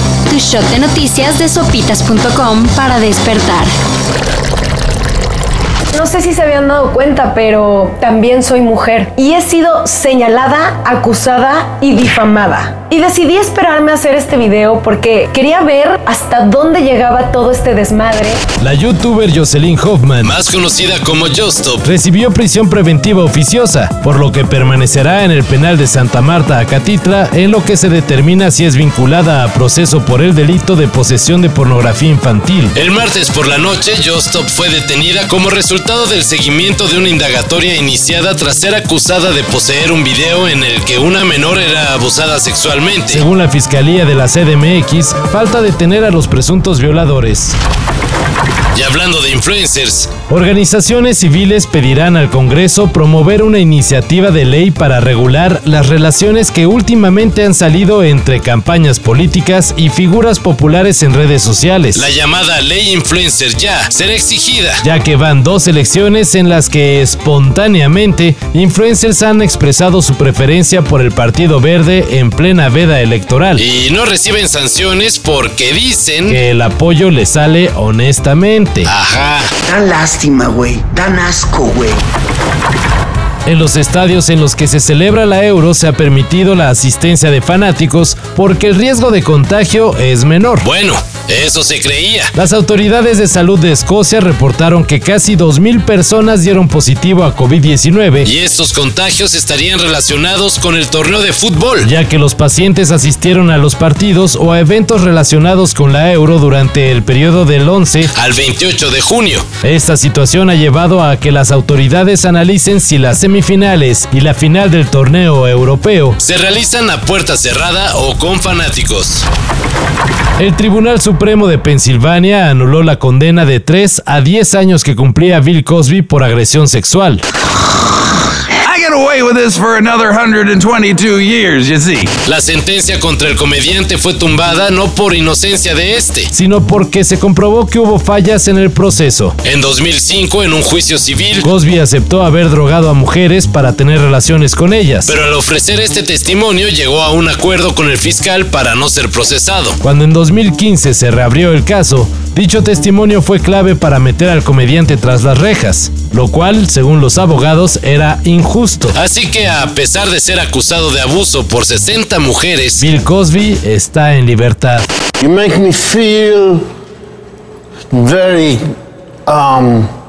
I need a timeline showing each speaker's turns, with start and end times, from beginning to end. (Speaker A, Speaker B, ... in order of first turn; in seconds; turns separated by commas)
Speaker A: 0.3-3.7, Speaker B: 5.9-18.4, Speaker C: 18.6-20.3, Speaker D: 20.2-21.8, Speaker C: 21.8-32.8, Speaker D: 32.8-43.2, Speaker C: 38.2-38.7, Speaker C: 43.1-47.6, Speaker D: 48.7-50.1, Speaker C: 50.2-62.1, Speaker D: 62.0-64.8, Speaker C: 64.8-73.6, Speaker D: 73.6-76.4, Speaker C: 76.3-78.9, Speaker D: 78.9-79.5, Speaker E: 79.7-82.1, Speaker C: 83.5-90.7, Speaker D: 90.6-92.3, Speaker C: 92.3-98.3, Speaker D: 98.3-101.9, Speaker C: 101.8-108.1, Speaker D: 108.1-109.5, Speaker C: 109.5-116.2, Speaker D: 116.2-119.2, Speaker C: 120.4-127.2, Speaker F: 128.7-132.1, Speaker D: 132.5-136.3, Speaker C: 136.3-139.4, Speaker D: 139.4-141.5, Speaker C: 141.4-145.1, Speaker D: 145.1-149.8, Speaker C: 149.8-159.0, Speaker D: 158.9-162.9, Speaker C: 162.8-164.9, Speaker G: 165.2-166.7, Speaker G: 167.9-168.6, Speaker G: 169.3-169.9